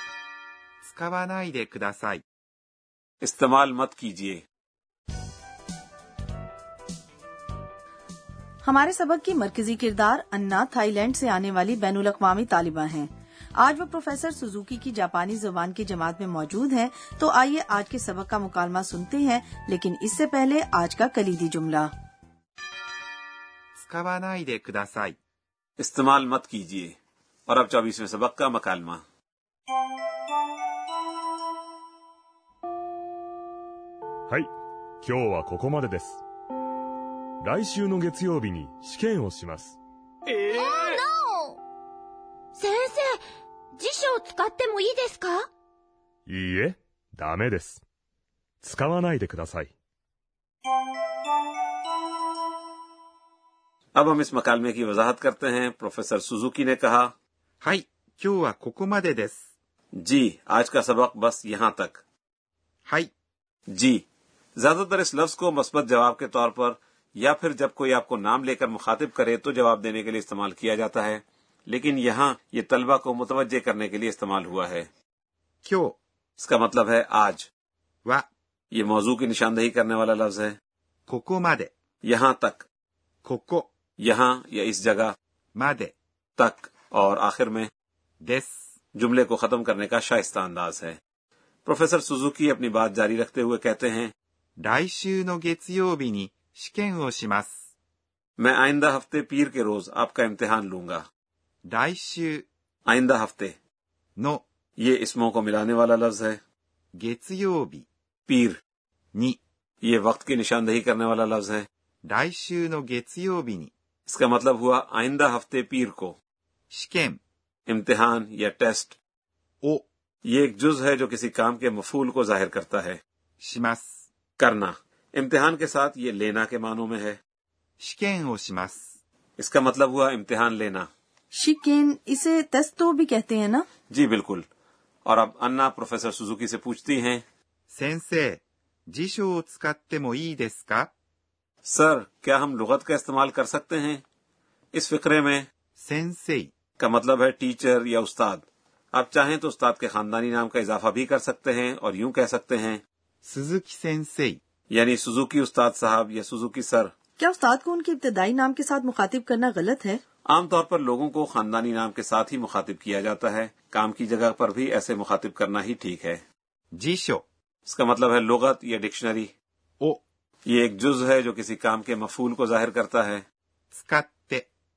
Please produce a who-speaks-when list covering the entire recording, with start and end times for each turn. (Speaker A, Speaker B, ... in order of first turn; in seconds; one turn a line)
Speaker A: 0.9-2.2
Speaker B: 3.2-4.4
Speaker C: 8.6-21.9
Speaker A: 23.8-25.1
Speaker B: 25.8-26.9
Speaker B: 27.5-29.0
Speaker D: 35.0-36.2
Speaker D: 37.4-39.8
Speaker E: 40.4-41.6
Speaker E: 42.6-43.2
Speaker E: 43.8-45.4
Speaker D: 46.3-47.8
Speaker D: 48.6-49.7
Speaker B: 53.9-57.1
Speaker A: 57.6-59.4
Speaker B: 60.0-62.0
Speaker B: 63.7-64.0
Speaker B: 64.6-74.9
Speaker A: 75.6-76.0
Speaker B: 76.4-77.5
Speaker B: 78.7-80.5
Speaker A: 81.1-81.7
Speaker B: 82.0-82.7
Speaker A: 83.2-83.7
Speaker B: 84.0-85.1
Speaker A: 85.6-85.9
Speaker B: 86.4-87.7
Speaker A: 88.2-88.5
Speaker B: 88.9-91.0
Speaker B: 91.7-94.1
Speaker A: 94.6-97.5
Speaker B: 98.4-101.0
Speaker A: 101.7-102.4
Speaker B: 102.9-103.5
Speaker A: 104.2-104.4
Speaker B: 104.8-106.4
Speaker A: 107.0-107.8
Speaker B: 108.3-108.6
Speaker B: 109.8-111.7
Speaker A: 112.1-113.7
Speaker B: 114.1-116.2
Speaker A: 116.7-117.2
Speaker B: 117.7-119.0
Speaker B: 120.2-123.0
Speaker A: 123.4-123.8
Speaker B: 124.4-127.2
Speaker A: 127.8-128.8
Speaker B: 129.4-130.9
Speaker C: 131.3-133.7
Speaker B: 133.9-134.4
Speaker B: 135.1-137.2
Speaker A: 137.7-138.4
Speaker A: 138.9-140.9
Speaker B: 141.6-144.0
Speaker B: 144.7-145.5
Speaker A: 145.8-146.5
Speaker B: 146.8-152.8
Speaker A: 153.2-154.4
Speaker B: 154.7-156.9
Speaker C: 157.2-160.0
Speaker B: 160.3-166.2
Speaker A: 166.7-167.2
Speaker B: 167.7-169.3
Speaker B: 170.4-173.2
Speaker A: 173.7-174.4